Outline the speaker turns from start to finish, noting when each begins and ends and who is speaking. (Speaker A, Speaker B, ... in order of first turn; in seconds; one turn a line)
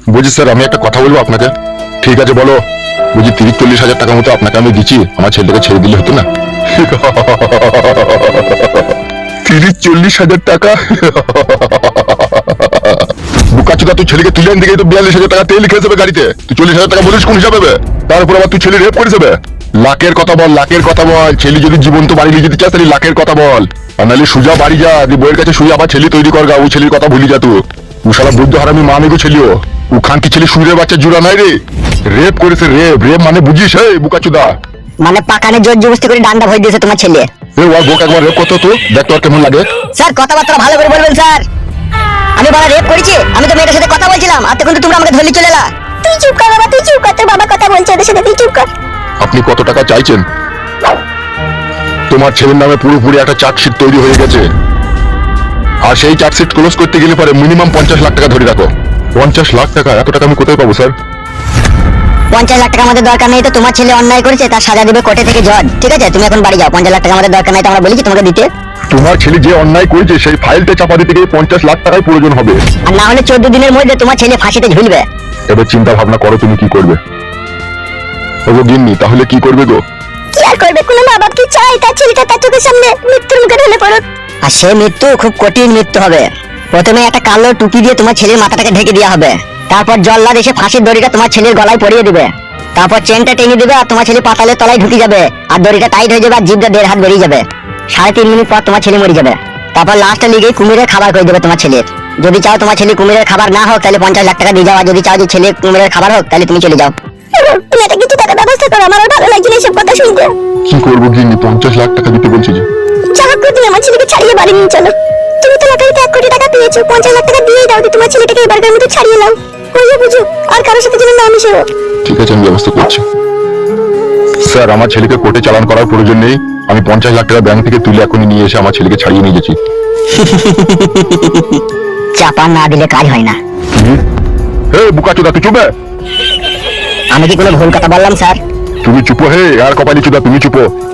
Speaker A: 0.1-2.6
Speaker A: 3.1-8.9
Speaker A: 9.4-31.6
Speaker A: 32.1-34.5
Speaker B: 35.0-37.3
Speaker A: 37.6-39.6
Speaker B: 40.0-41.4
Speaker B: 42.4-45.7
Speaker C: 46.0-48.7
Speaker A: 49.2-50.2
Speaker A: 52.1-54.4
Speaker A: 55.8-60.9
Speaker B: 62.3-68.5
Speaker A: 68.9-72.6
Speaker B: 72.9-75.0
Speaker A: 75.5-77.0
Speaker A: 78.5-79.8
Speaker C: 80.3-84.0
Speaker B: 84.4-106.9
Speaker C: 107.3-110.3
Speaker A: 110.7-112.7
Speaker C: 113.1-121.7
Speaker A: 122.0-123.0
Speaker A: 124.4-129.6
Speaker B: 130.1-131.6
Speaker B: 132.2-133.4
Speaker A: 133.7-134.0
Speaker A: 134.7-135.7
Speaker B: 137.1-138.4
Speaker A: 138.8-140.6